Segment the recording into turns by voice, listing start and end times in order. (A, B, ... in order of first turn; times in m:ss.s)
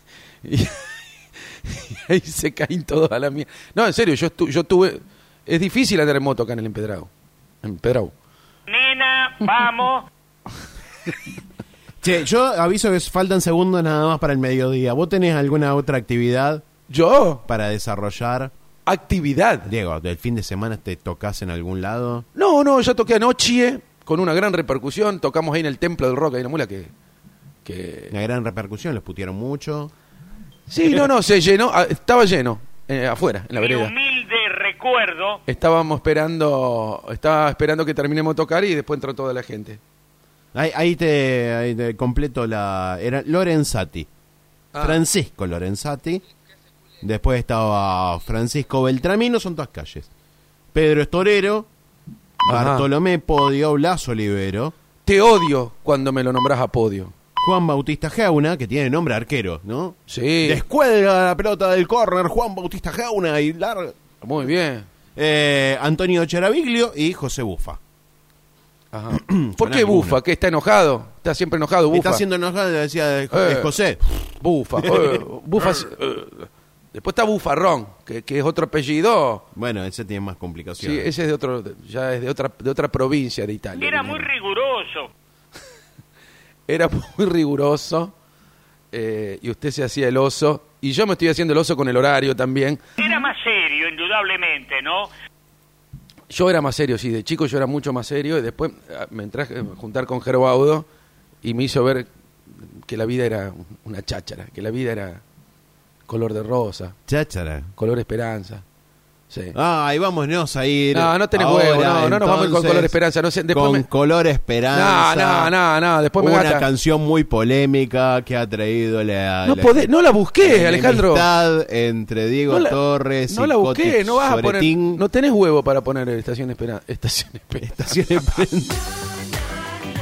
0:00.4-0:07.1 A
0:07.6-0:08.1 A
0:08.7-0:10.1 B
0:12.0-0:16.7 C
0:16.9-0:17.4 A
0:17.5-0:18.5 C
0:18.9-0:19.7 A
0:19.6-0:22.3 C
0:22.4-0:26.9 A
0:27.6-0:28.1 A
0:28.1-0:29.9 C
0:30.7-0:33.9 A
0:33.6-0:35.4 B
0:35.5-0:39.8 A
0:40.5-0:44.1 C
0:44.7-0:45.0 A
0:44.8-0:46.2 C
0:47.0-0:50.1 C
0:50.7-0:51.7 C
0:52.4-0:54.7 C
0:52.5-0:52.9 A
0:55.0-0:57.1 A
0:57.4-1:04.0 C
1:00.1-1:00.6 A
1:04.2-1:04.9 A
1:05.2-1:07.8 C
1:08.9-1:12.2 A
1:09.1-1:10.2 C
1:11.9-1:15.2 C
1:13.3-1:13.8 A
1:14.4-1:19.5 A
1:19.5-1:21.1 C
1:20.8-1:24.3 A
1:23.8-1:25.1 B
1:26.7-1:28.1 A
1:28.9-1:32.8 A
1:33.0-1:35.1 B
1:36.3-1:40.9 A
1:41.4-1:45.2 A
1:46.1-1:47.0 A
1:47.1-1:47.7 C
1:47.8-1:48.6 A
1:49.3-1:49.6 A
1:49.5-1:53.0 C
1:50.9-1:53.9 A
1:53.5-1:55.5 C
1:54.7-1:56.7 A
1:56.2-2:05.0 C
1:59.4-2:01.3 A
2:02.5-2:08.0 A
2:07.6-2:08.8 C